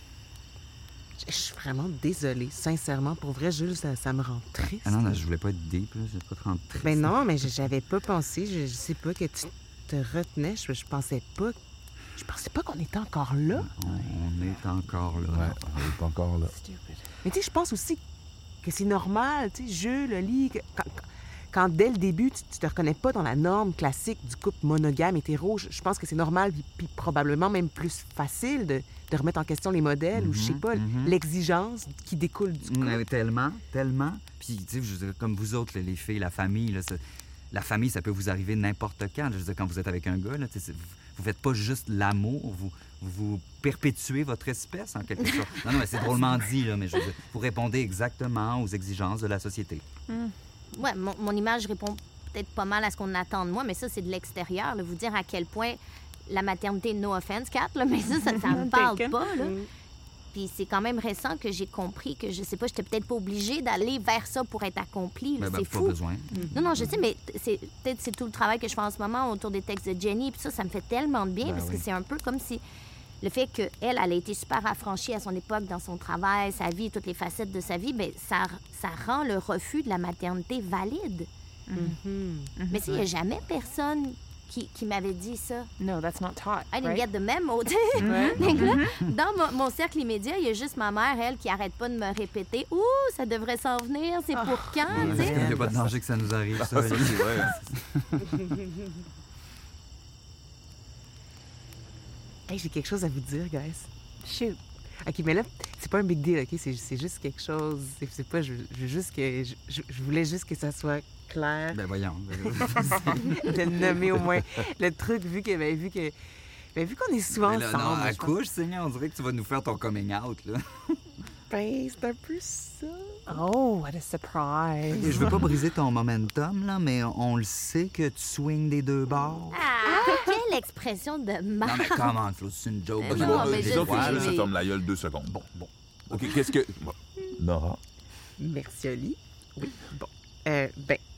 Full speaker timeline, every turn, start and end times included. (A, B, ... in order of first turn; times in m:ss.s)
0:01.2-0:05.2 A
0:04.6-0:07.2 B
0:06.8-0:11.6 A
0:12.2-0:14.2 A
0:13.6-0:15.6 B
0:15.3-0:16.5 C
0:17.2-0:18.0 A
0:18.6-0:33.0 A
0:30.1-0:31.2 B
0:32.6-0:49.8 B
0:50.1-0:50.4 D
0:50.7-0:59.5 E
0:58.5-0:59.2 D
0:59.4-0:59.7 A
1:00.3-1:06.0 E
1:05.4-1:06.9 B
1:06.5-1:12.6 E
1:11.4-1:11.9 B
1:13.2-1:21.3 E
1:21.7-1:22.0 D
1:21.8-1:23.0 A
1:22.6-1:22.9 D
1:22.7-1:25.7 E
1:25.8-1:27.0 D
1:26.7-1:35.6 E
1:28.1-1:28.5 A
1:28.4-1:29.0 B
1:34.3-1:35.6 A
1:34.9-1:38.2 B
1:35.0-1:36.0 C
1:36.6-1:37.6 C
1:42.5-1:43.9 A
1:44.3-1:44.6 D
1:45.0-1:51.8 A
1:51.7-1:53.4 B
1:53.1-1:56.1 A
1:56.7-1:58.4 A
1:57.3-2:01.0 B
2:01.5-2:03.4 A
2:03.3-2:05.0 D
2:04.9-2:09.7 B
2:05.0-2:05.5 C
2:09.5-2:12.2 E
2:09.9-2:10.3 A
2:11.6-2:14.4 B
2:13.0-2:14.5 E
2:13.1-2:17.8 C
2:18.4-2:21.0 A